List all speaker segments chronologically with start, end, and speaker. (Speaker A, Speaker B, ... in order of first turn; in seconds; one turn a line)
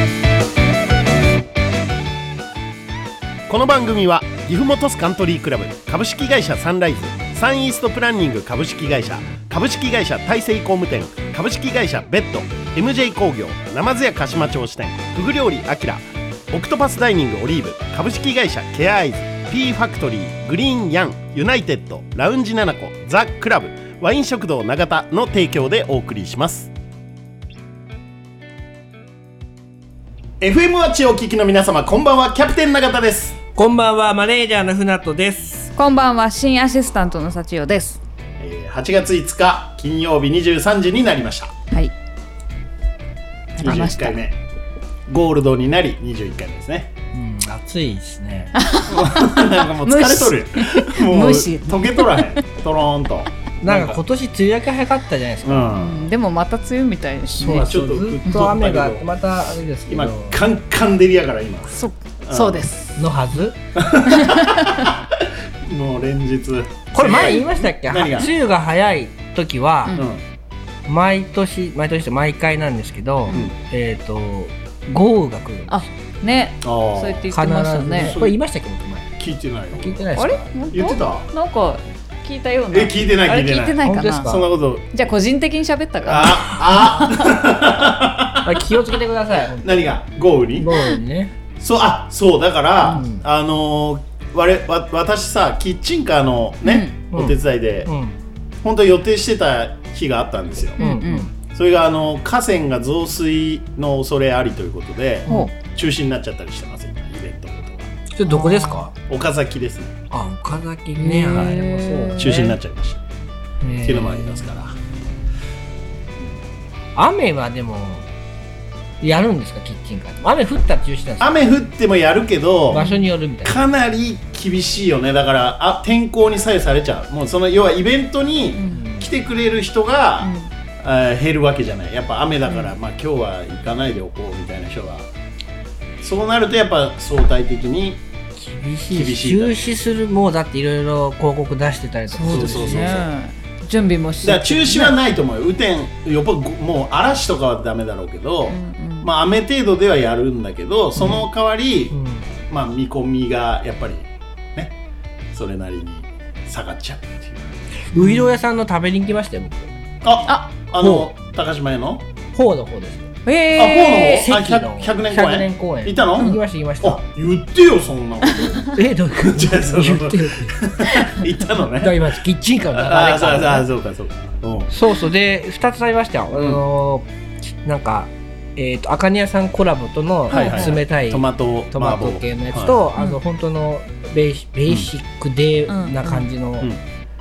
Speaker A: 3.5-26.7
Speaker A: 30.4-33.4
Speaker B: 33.6-35.7
Speaker C: 35.8-38.0
Speaker A: 38.4-41.5
Speaker C: 43.6-44.2
Speaker A: 43.6-44.4
Speaker A: 45.1-46.9
Speaker B: 47.1-48.5
Speaker C: 48.6-52.3
Speaker A: 48.9-54.0
Speaker B: 53.6-55.8
Speaker A: 55.4-56.1
Speaker C: 55.8-57.7
Speaker B: 57.4-60.4
Speaker A: 57.4-59.1
Speaker A: 59.9-62.7
Speaker C: 61.7-63.0
Speaker B: 63.0-63.6
Speaker A: 63.8-65.0
Speaker C: 64.1-64.9
Speaker A: 65.7-68.3
Speaker B: 66.9-70.0
Speaker A: 69.9-70.2
Speaker B: 70.9-75.8
Speaker A: 73.3-73.6
Speaker C: 75.7-78.2
Speaker A: 76.6-77.2
Speaker B: 77.3-79.1
Speaker A: 78.0-78.4
Speaker A: 79.2-80.1
Speaker B: 79.7-80.5
Speaker C: 80.2-87.5
Speaker A: 80.7-81.3
Speaker A: 82.7-85.0
Speaker B: 83.8-84.5
Speaker A: 86.0-88.5
Speaker B: 88.5-89.9
Speaker A: 89.6-90.7
Speaker B: 90.6-91.3
Speaker A: 91.6-97.9
Speaker B: 92.9-93.2
Speaker C: 96.6-97.0
Speaker B: 97.1-98.2
Speaker A: 98.6-100.8
Speaker C: 100.8-101.3
Speaker B: 100.8-101.3
Speaker A: 101.5-107.9
Speaker C: 105.3-105.5
Speaker B: 108.1-108.9
Speaker C: 108.3-108.9
Speaker A: 109.1-110.0
Speaker B: 110.1-112.5
Speaker C: 111.0-112.5
Speaker A: 111.3-111.6
Speaker A: 112.2-113.0
Speaker B: 113.6-114.2
Speaker A: 113.8-114.8
Speaker B: 117.0-118.0
Speaker B: 119.0-121.3
Speaker A: 121.2-122.8
Speaker B: 122.7-123.6
Speaker C: 122.7-123.1
Speaker A: 123.4-135.1
Speaker C: 128.6-128.8
Speaker B: 128.7-129.1
Speaker C: 130.2-130.5
Speaker C: 132.5-132.7
Speaker A: 136.0-138.0
Speaker B: 138.4-143.1
Speaker A: 138.9-139.6
Speaker C: 142.1-145.0
Speaker A: 142.3-143.1
Speaker A: 144.2-154.7
Speaker C: 148.5-149.1
Speaker B: 151.9-152.3
Speaker A: 155.3-157.7
Speaker B: 157.9-159.7
Speaker C: 157.9-158.3
Speaker A: 160.0-162.0
Speaker B: 160.8-161.1
Speaker B: 162.3-163.1
Speaker C: 163.3-164.3
Speaker A: 163.6-174.7
Speaker B: 164.1-167.0
Speaker B: 168.7-170.7
Speaker B: 171.8-173.7
Speaker B: 174.7-177.1
Speaker A: 176.3-176.6
Speaker B: 177.6-186.7
Speaker A: 180.3-182.8
Speaker C: 180.3-180.8
Speaker C: 185.7-186.3